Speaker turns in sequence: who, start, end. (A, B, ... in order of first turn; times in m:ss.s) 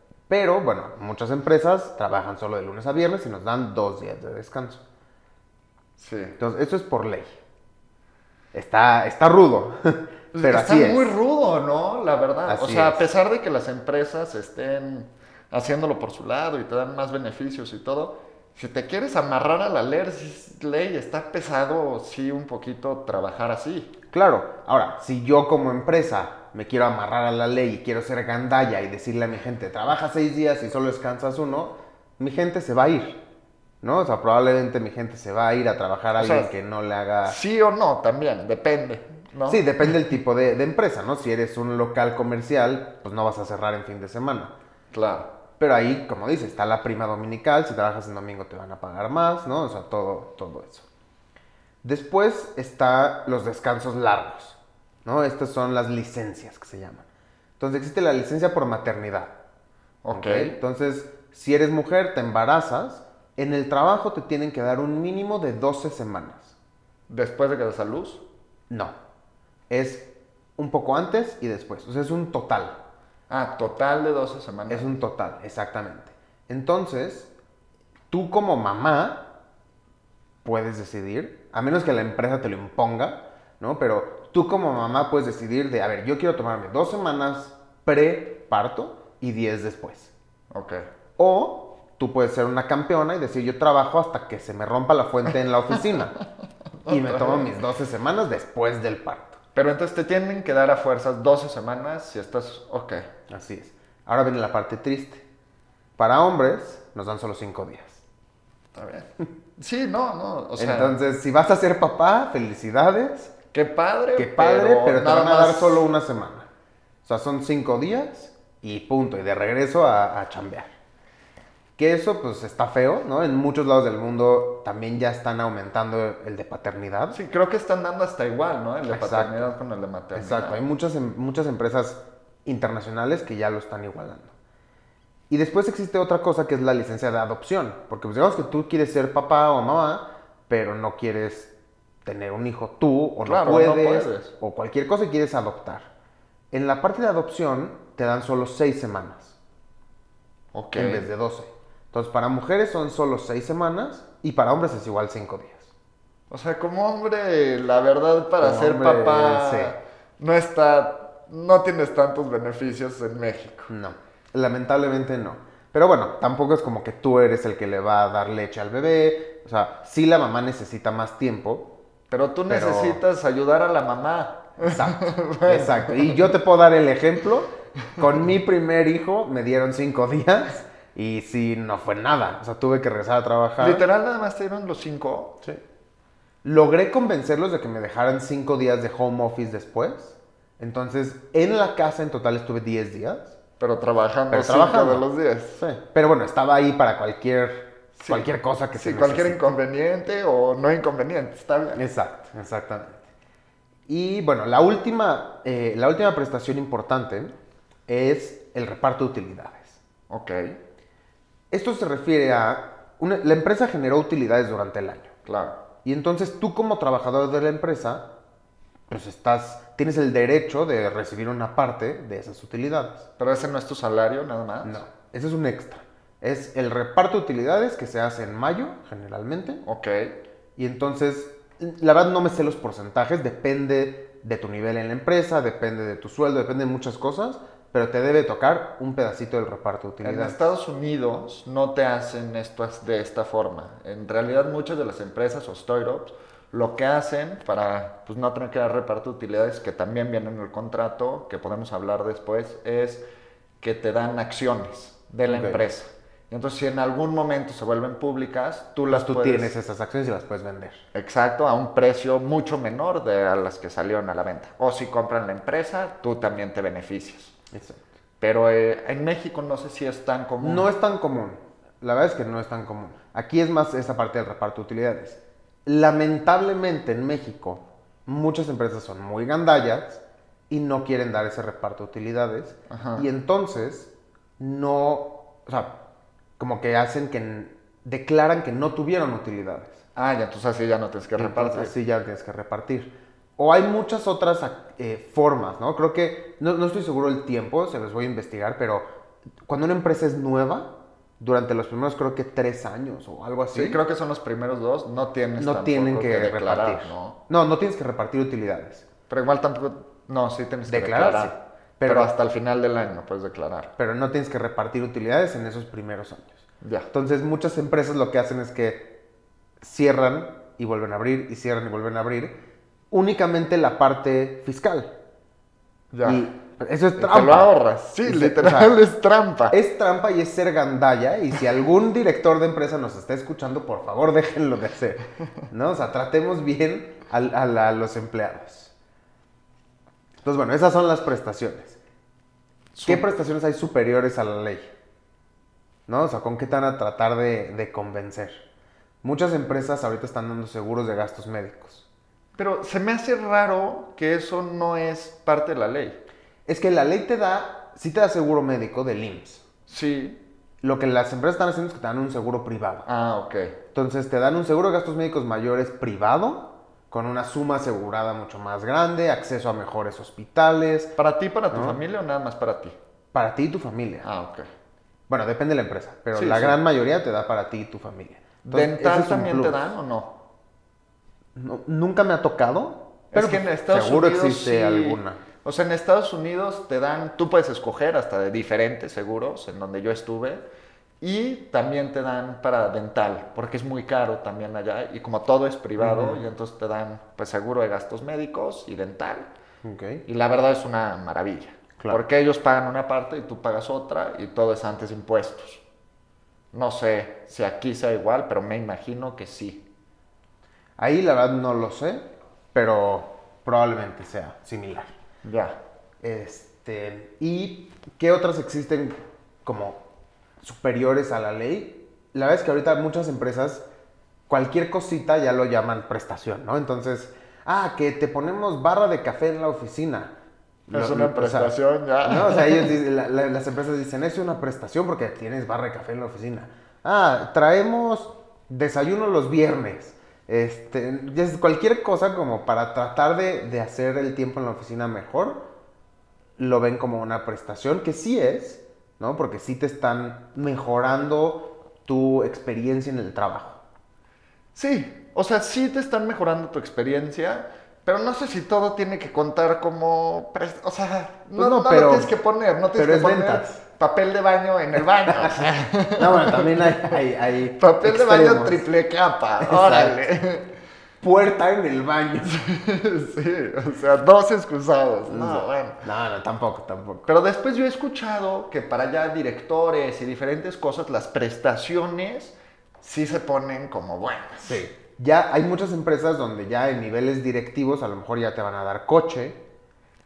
0:00.3-0:04.8 A
0:06.0-0:06.4 B
0:06.4-0:07.4 A
0:08.5-0:11.1 A
0:10.3-0:23.9 B
0:12.5-0:13.0 A
0:24.1-0:33.2 A
0:33.8-0:37.4 A
0:36.2-0:36.5 B
0:37.2-0:39.6 B
0:39.5-0:44.5 A
0:44.9-0:45.3 B
0:45.6-0:50.8 A
0:51.8-0:57.0 A
0:57.6-0:59.4 A
1:00.0-1:00.6 B
1:00.1-1:06.5 A
1:07.1-1:08.2 B
1:08.7-1:09.0 A
1:09.7-1:12.8 A
1:13.3-1:14.9 B
1:14.7-1:17.3 A
1:18.1-1:19.3 A
1:20.4-1:30.1 A
1:30.5-1:30.9 B
1:31.2-1:36.2 A
1:36.8-1:37.5 B
1:36.9-1:39.4 A
1:39.6-1:43.1 B
1:43.3-1:45.2 A
1:46.0-1:48.0 A
1:48.7-1:51.0 B
1:50.6-1:53.3 A
1:53.5-1:55.8 B
1:54.2-1:56.5 A
1:57.0-2:00.7 A
2:01.8-2:07.2 A
2:07.1-2:10.6 B
2:08.9-2:09.4 A
2:10.1-2:14.3 A
2:15.3-2:21.5 A
2:22.0-2:25.9 A
2:23.2-2:24.3 B
2:26.5-2:29.3 A
2:30.5-2:31.1 B
2:30.8-2:35.7 A
2:36.3-2:43.7 B
2:38.4-2:39.7 A
2:43.7-2:51.7 A
2:52.1-2:56.2 B
2:52.5-2:53.0 A
2:54.6-3:03.8 A
3:03.6-3:05.4 B
3:06.4-3:13.4 A
3:13.6-3:15.6 B
3:14.3-3:15.0 A
3:15.6-3:19.4 A
3:18.0-3:21.8 B
3:21.8-3:23.0 A
3:23.9-3:27.4 A
3:27.9-3:29.8 A
3:30.1-3:30.6 B
3:31.5-3:35.1 A
3:35.3-3:35.6 B
3:35.8-3:38.1 A
3:38.9-3:43.1 A
3:43.2-3:44.8 B
3:44.6-3:49.6 A
3:49.6-3:50.2 B
3:50.6-4:00.5 A
4:00.0-4:13.0 B
4:13.6-4:19.5 B
4:15.3-4:15.6 A
4:18.9-4:20.8 A
4:20.9-4:27.3 B
4:27.5-4:27.8 A
4:28.2-4:30.7 B
4:30.4-4:45.8 A
4:42.7-4:43.1 B
4:46.4-4:49.8 A
4:50.0-4:51.7 B
4:51.2-4:58.9 A
4:59.5-5:03.8 A
5:03.5-5:07.2 B
5:05.4-5:08.8 A
5:09.1-5:13.7 B
5:10.7-5:12.1 A
5:13.8-5:16.4 A
5:16.6-5:16.9 B
5:16.9-5:19.0 A
5:19.6-5:22.4 A
5:22.9-5:24.9 A
5:25.9-5:26.3 B
5:26.0-5:27.5 A
5:27.0-5:29.6 B
5:28.0-5:28.7 A
5:29.5-5:38.7 A
5:40.2-5:41.8 A
5:42.8-5:43.0 B
5:42.9-5:44.7 A
5:45.9-5:48.4 A
5:49.0-5:51.8 A
5:52.4-5:56.0 B
5:56.5-5:59.4 A
5:59.7-6:00.2 B
6:00.6-6:02.9 A
6:02.9-6:03.6 B
6:03.7-6:10.9 A
6:11.0-6:12.8 B
6:11.5-6:11.8 A
6:13.1-6:14.1 A
6:14.0-6:14.4 B
6:15.1-6:19.7 A
6:16.1-6:16.6 B
6:18.4-6:20.2 B
6:21.4-6:25.2 A
6:23.1-6:30.4 B
6:31.0-6:39.3 B
6:35.8-6:36.2 A
6:39.6-6:40.0 A
6:40.1-6:45.6 B
6:46.5-6:49.6 B
6:50.8-6:54.9 A
6:55.2-6:55.6 B
6:56.0-6:59.8 A
7:00.4-7:03.6 A
7:04.3-7:10.1 A
7:10.7-7:11.5 A
7:10.7-7:12.7 B
7:12.0-7:25.5 A
7:26.4-7:33.6 A
7:34.6-7:47.0 B
7:41.4-7:42.1 A
7:42.8-7:43.6 A
7:45.1-7:48.6 A
7:47.6-7:50.5 B
7:49.4-7:50.0 A
7:51.0-7:52.4 A
7:52.2-7:55.8 B
7:55.1-7:57.1 A
7:57.1-8:04.6 B
8:04.4-8:09.4 A